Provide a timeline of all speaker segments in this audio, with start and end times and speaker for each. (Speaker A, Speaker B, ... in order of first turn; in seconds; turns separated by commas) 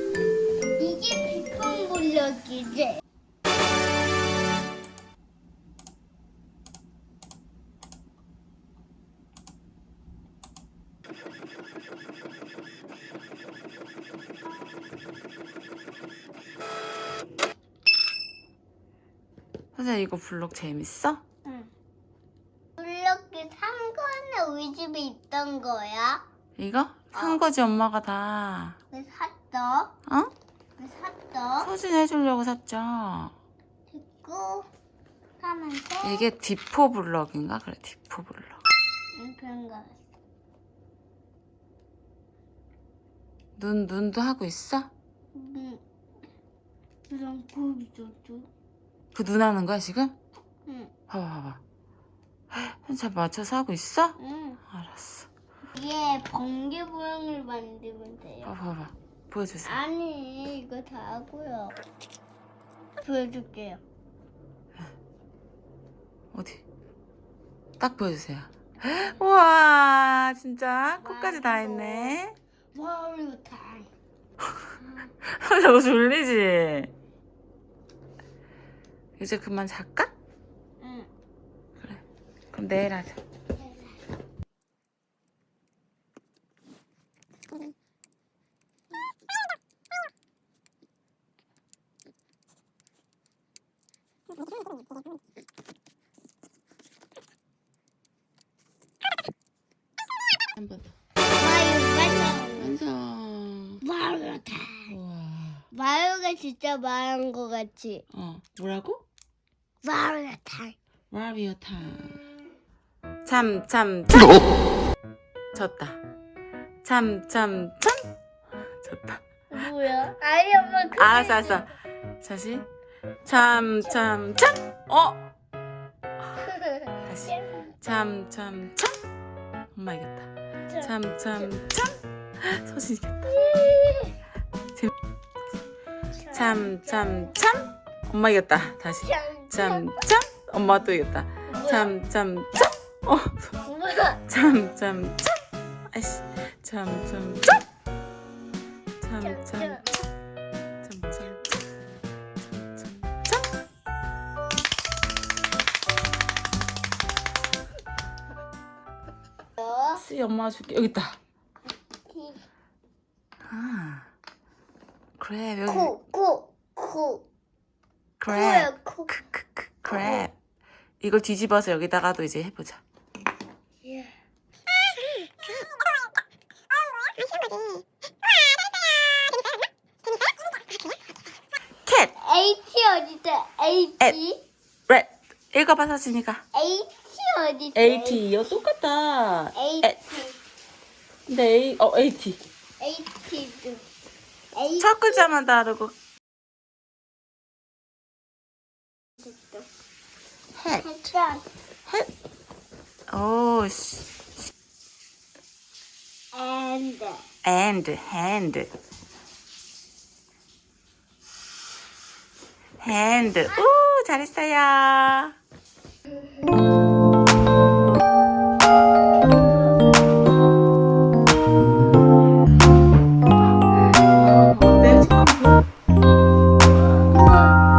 Speaker A: 0.8-3.0, Speaker B: 19.7-21.2, Speaker A: 21.4-21.7, Speaker A: 22.8-26.2, Speaker B: 26.6-28.8, Speaker A: 27.1-27.4, Speaker A: 28.9-29.9, Speaker A: 30.8-31.7, Speaker B: 31.6-33.3, Speaker A: 33.9-34.7, Speaker A: 35.4-36.3, Speaker B: 36.0-38.6, Speaker A: 39.1-40.0, Speaker B: 43.5-44.9, Speaker A: 45.3-45.8, Speaker A: 47.1-48.5, Speaker B: 49.1-50.1, Speaker A: 50.7-50.9, Speaker B: 51.1-51.6, Speaker B: 52.5-54.2, Speaker A: 54.2-54.6, Speaker B: 54.7-55.3, Speaker A: 55.7-58.5, Speaker B: 58.4-59.8, Speaker A: 59.6-61.8, Speaker A: 63.0-63.8, Speaker B: 66.3-66.6, Speaker B: 67.8-72.3, Speaker A: 71.0-72.2, Speaker A: 72.7-73.9, Speaker B: 75.2-76.9, Speaker B: 79.2-80.1, Speaker A: 80.8-81.1, Speaker B: 82.5-83.2, Speaker A: 83.6-83.9, Speaker B: 100.6-100.9, Speaker A: 101.4-102.8, Speaker B: 102.5-103.8, Speaker A: 103.8-104.9, Speaker B: 104.9-105.6, Speaker A: 105.7-108.0, Speaker B: 108.1-109.0, Speaker A: 109.8-110.8, Speaker B: 111.1-112.1, Speaker B: 113.2-114.4, Speaker B: 115.5-116.0, Speaker B: 116.8-118.0, Speaker B: 118.8-119.2, Speaker A: 119.5-121.7, Speaker B: 120.9-121.7, Speaker B: 122.2-122.7, Speaker B: 123.2-125.2, Speaker A: 126.4-127.7, Speaker B: 127.0-128.9, Speaker B: 129.7-133.3, Speaker A: 133.2-134.2, Speaker A: 136.2-137.3, Speaker B: 136.3-143.6, Speaker A: 139.0-140.0, Speaker A: 141.5-141.9, Speaker A: 143.6-144.2, Speaker B: 144.3-145.4, Speaker B: 145.9-147.6, Speaker B: 149.0-149.9, Speaker A: 149.2-149.9, Speaker B: 150.8-151.6, Speaker B: 152.4-153.4, Speaker A: 159.6-160.0, Speaker B: 159.9-161.2, Speaker A: 162.1-162.4, Speaker B: 163.5-164.1, Speaker B: 165.2-165.9, Speaker A: 165.7-167.2, Speaker B: 168.2-170.3, Speaker A: 168.3-169.2, Speaker A: 169.9-170.3, Speaker B: 171.0-172.8, Speaker A: 173.8-174.1, Speaker B: 181.8-182.1, Speaker A: 182.2-184.4, Speaker B: 184.9-186.4, Speaker A: 186.5-188.4, Speaker B: 187.7-190.1, Speaker A: 189.5-190.4, Speaker B: 191.3-192.4, Speaker A: 192.8-193.8, Speaker A: 194.5-195.2, Speaker B: 194.8-195.9, Speaker A: 199.2-199.7, Speaker B: 200.5-200.8, Speaker A: 200.8-201.4, Speaker B: 203.1-204.1, Speaker A: 206.3-207.2, Speaker B: 207.4-208.7, Speaker B: 212.8-215.3, Speaker B: 223.9-225.7, Speaker B: 226.7-227.2, Speaker A: 227.1-227.5